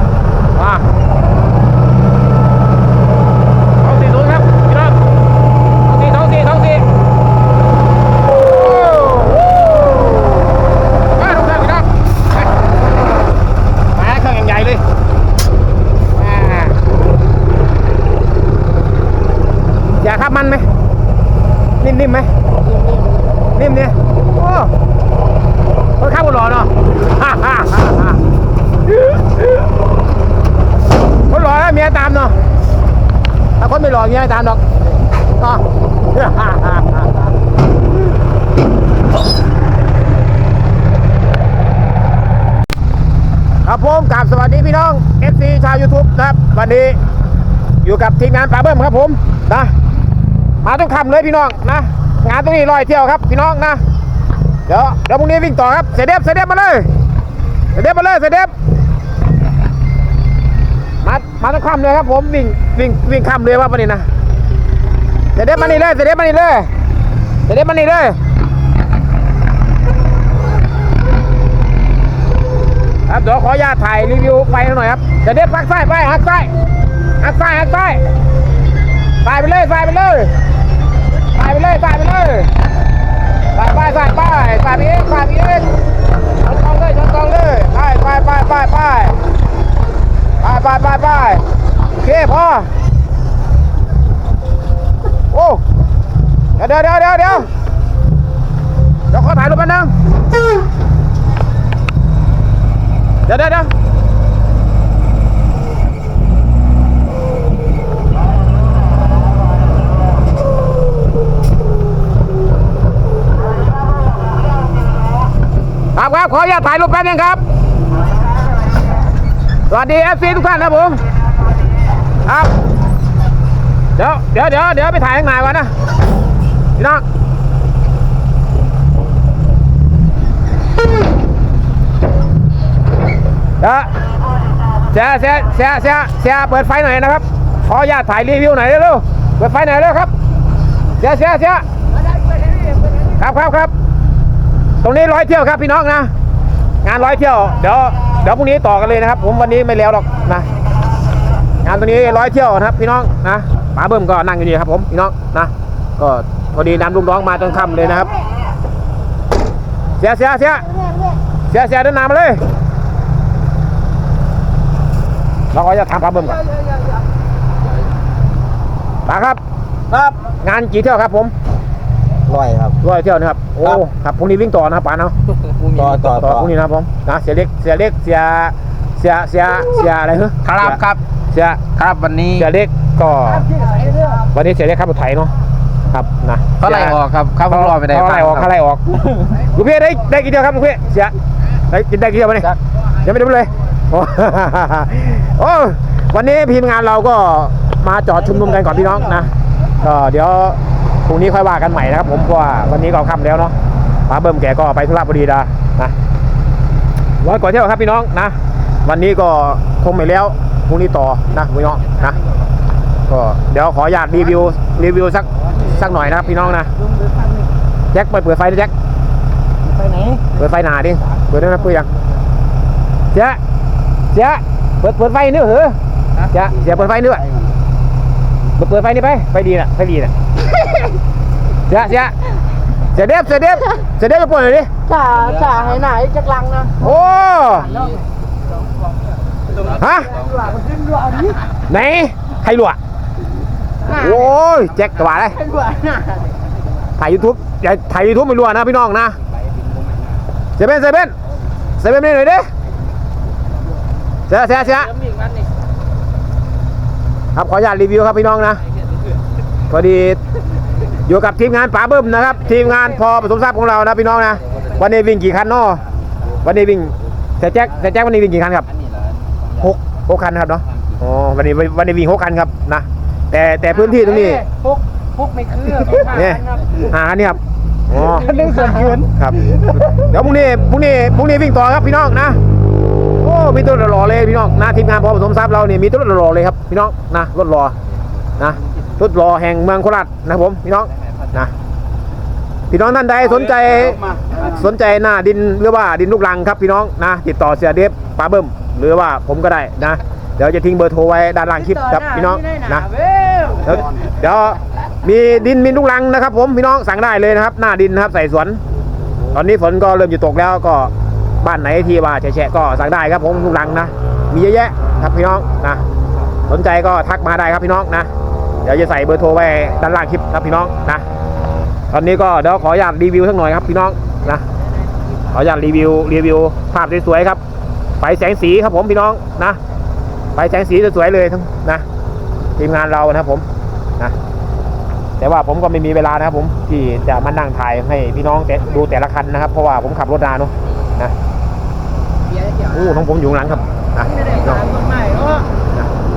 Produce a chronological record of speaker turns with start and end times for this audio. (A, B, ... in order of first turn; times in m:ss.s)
0:00.6-0:00.9 A
0:03.8-0:05.0 A
0:05.9-0:06.9 A
0:08.3-0:10.4 A
0:11.2-0:11.9 A
0:13.9-0:14.8 A
0:16.1-0:16.8 A
0:20.0-0:20.7 A
0:21.8-0:22.3 A
0:22.7-0:23.3 B
0:23.5-0:24.7 A
0:26.0-0:28.2 A
0:31.3-0:32.4 A
0:33.6-0:34.6 A
0:35.4-0:37.1 A
0:43.6-0:47.0 A
0:47.8-0:49.7 A
0:50.6-0:53.8 A
0:54.7-0:56.9 A
0:57.7-0:58.5 A
1:01.0-1:04.1 A
1:05.4-1:06.7 A
1:07.5-1:08.2 A
1:13.1-1:16.5 A
1:17.2-1:18.0 A
1:19.2-1:20.3 A
1:21.3-1:22.5 A
1:23.5-1:25.7 A
1:26.4-1:29.2 A
1:30.4-1:31.4 A
1:32.0-1:32.7 A
1:35.3-1:35.6 A
1:36.6-1:37.5 A
1:39.1-1:39.9 A
1:43.3-1:43.7 A
1:56.0-1:57.4 A
1:59.7-2:01.0 A
2:02.3-2:02.5 A
2:04.0-2:05.7 A
2:06.8-2:07.0 A
2:13.6-2:13.9 A
2:14.9-2:20.1 A
2:21.0-2:21.6 A
2:22.2-2:23.0 B
2:23.1-2:23.7 A
2:24.8-2:26.1 A
2:26.8-2:30.5 A
2:31.6-2:38.1 A
2:40.0-2:40.7 A
2:41.5-2:42.4 A
2:45.5-2:46.4 A
2:49.1-2:49.4 A
2:50.4-2:51.3 A
2:52.3-2:52.8 C
2:52.8-2:55.2 A
2:55.4-2:56.5 C
2:55.8-3:01.6 A
3:00.4-3:01.0 C
3:01.7-3:02.5 C
3:02.3-3:03.5 A
3:03.5-3:04.2 B
3:04.2-3:05.4 A
3:05.9-3:11.1 A
3:06.6-3:08.5 C
3:11.7-3:23.5 A
3:24.1-3:25.9 A
3:27.2-3:32.2 A
3:33.1-3:36.7 A
3:36.7-3:37.5 B
3:37.9-3:38.7 A
3:39.7-3:40.2 B
3:40.3-3:41.9 A
3:43.1-3:43.4 A
3:44.1-3:45.8 A
3:46.3-3:47.3 A
3:48.6-3:50.1 A
3:51.7-3:52.2 A
3:52.8-3:54.7 A
3:54.9-3:56.8 B
3:55.1-3:56.0 C
3:56.8-3:57.7 A
3:57.7-3:58.0 C
3:57.7-3:58.0 B
3:59.8-4:00.2 A
4:00.2-4:01.4 B
4:00.2-4:00.5 C
4:01.7-4:02.8 A
4:03.9-4:04.3 B
4:03.9-4:05.4 A
4:05.4-4:06.3 B
4:07.0-4:09.2 A
4:09.4-4:10.2 C
4:10.6-4:11.1 A
4:11.8-4:12.5 A
4:14.3-4:15.0 A
4:15.0-4:15.5 B
4:17.4-4:18.6 A
4:19.7-4:20.2 A
4:21.0-4:25.8 A
4:26.4-4:28.7 A
4:28.8-4:29.5 C
4:29.6-4:34.5 A
4:33.9-4:36.7 B
4:36.0-4:42.4 A
4:38.3-4:39.0 B
4:38.4-4:38.8 C
4:43.2-4:47.8 A
4:48.4-4:51.5 A
4:52.7-5:02.9 A
5:01.8-5:03.8 B
5:03.6-5:08.6 A
5:09.3-5:15.8 A
5:16.5-5:18.1 A
5:18.6-5:21.0 A
5:21.9-5:24.4 A
5:25.3-5:27.4 A
5:28.0-5:29.6 A
5:30.4-5:31.8 A
5:32.6-5:33.5 A
5:35.2-5:41.1 A
5:42.3-5:42.9 B
5:42.7-5:44.6 A
5:44.1-5:45.5 B